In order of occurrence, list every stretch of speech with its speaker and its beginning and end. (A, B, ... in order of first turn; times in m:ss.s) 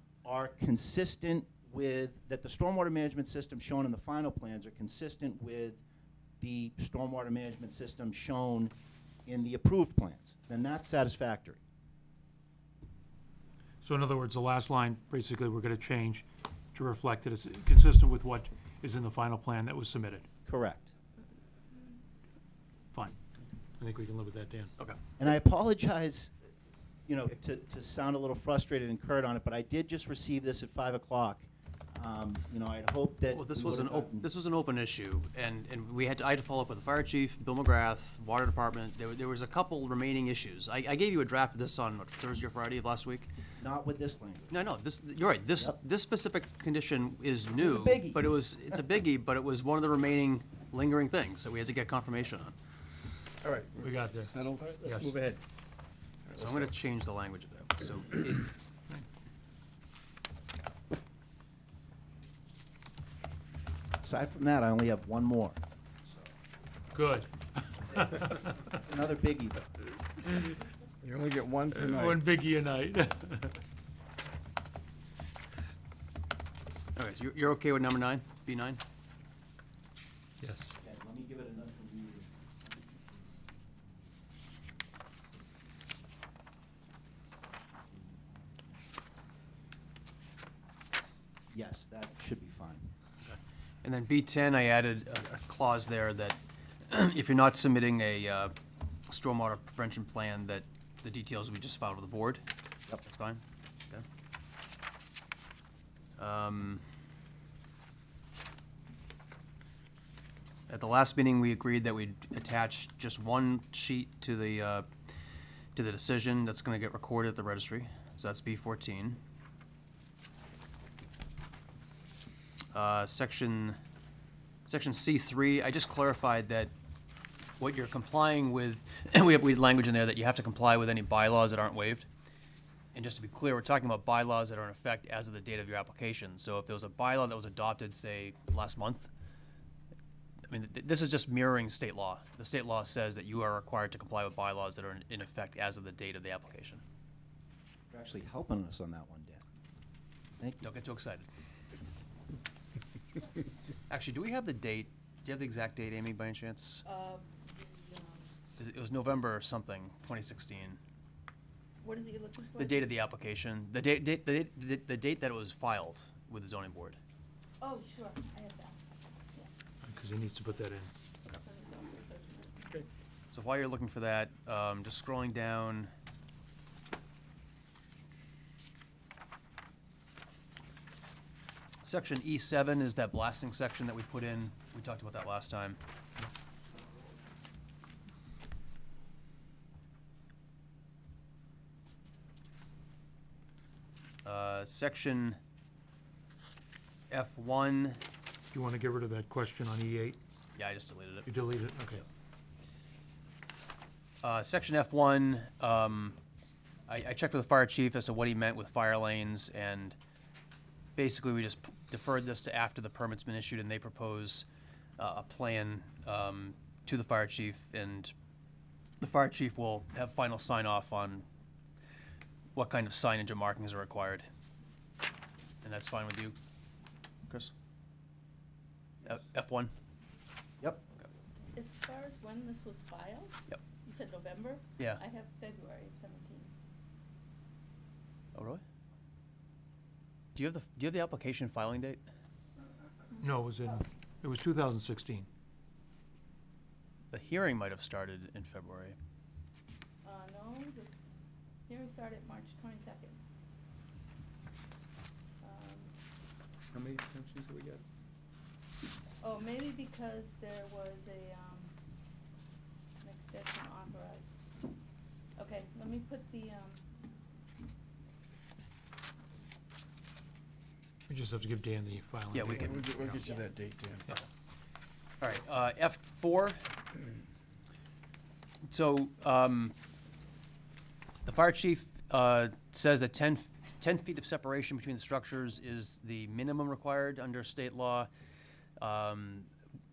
0:00.2-0:05.8 A
0:06.4-0:08.7 A
0:09.2-0:11.6 A
0:13.8-0:20.2 B
0:20.4-0:20.9 A
0:23.8-0:24.7 B
0:25.2-0:26.3 A
0:27.1-0:34.2 A
0:33.3-0:43.3 C
0:43.6-0:44.6 A
0:44.5-0:52.5 C
0:47.6-0:48.3 A
0:53.4-0:55.4 D
0:53.8-0:55.1 B
0:56.3-0:58.7 C
0:56.3-0:56.7 D
1:04.0-1:06.3 A
1:06.9-1:08.5 B
1:07.8-1:09.7 A
1:11.0-1:12.2 D
1:11.7-1:13.6 B
1:17.0-1:18.8 C
1:20.4-1:20.7 B
1:20.8-1:23.6 A
1:27.8-1:28.5 A
1:31.5-1:32.9 A
1:33.2-1:36.4 C
1:36.9-1:38.5 C
1:39.1-1:42.4 C
1:43.0-1:44.0 C
1:46.2-1:46.8 C
1:50.7-1:54.8 C
1:55.7-1:59.2 C
2:02.7-2:03.8 C
2:04.7-2:06.7 C
2:07.6-2:12.1 C
2:12.9-2:19.1 C
2:20.5-2:26.8 C
2:27.9-2:29.4 A
2:30.4-2:30.7 A
2:30.6-2:31.3 C
2:33.9-2:36.8 C
2:36.8-2:38.3 E
2:38.6-2:40.8 C
2:41.8-2:42.9 E
2:42.6-2:47.0 C
2:47.6-2:49.5 E
2:49.8-2:50.9 B
2:51.2-2:52.8 E
2:53.3-2:55.9 C
3:01.8-3:05.8 C
3:14.2-3:15.4 C
3:17.1-3:18.0 C
3:18.5-3:20.2 B
3:20.6-3:21.3 C
3:21.2-3:22.0 B
3:24.2-3:26.2 C
3:26.9-3:30.0 C
3:31.0-3:34.4 C
3:35.0-3:38.1 C
3:39.0-3:41.2 C
3:42.5-3:44.2 C
3:45.6-3:46.4 C
3:49.0-3:49.7 C
3:51.5-3:56.5 E
3:58.3-3:58.6 C
4:00.3-4:02.0 C
4:03.2-4:05.3 B
4:07.1-4:09.0 C
4:10.0-4:10.9 E
4:11.7-4:13.2 E
4:15.4-4:15.9 E
4:16.7-4:17.8 C
4:19.2-4:21.7 E
4:23.0-4:24.4 E
4:25.4-4:26.8 E
4:31.1-4:33.2 B
4:32.3-4:32.7 C
4:32.4-4:34.1 D
4:33.2-4:33.5 E
4:35.2-4:36.6 C
4:38.7-4:39.7 C
4:41.2-4:48.1 C
4:48.8-4:49.5 C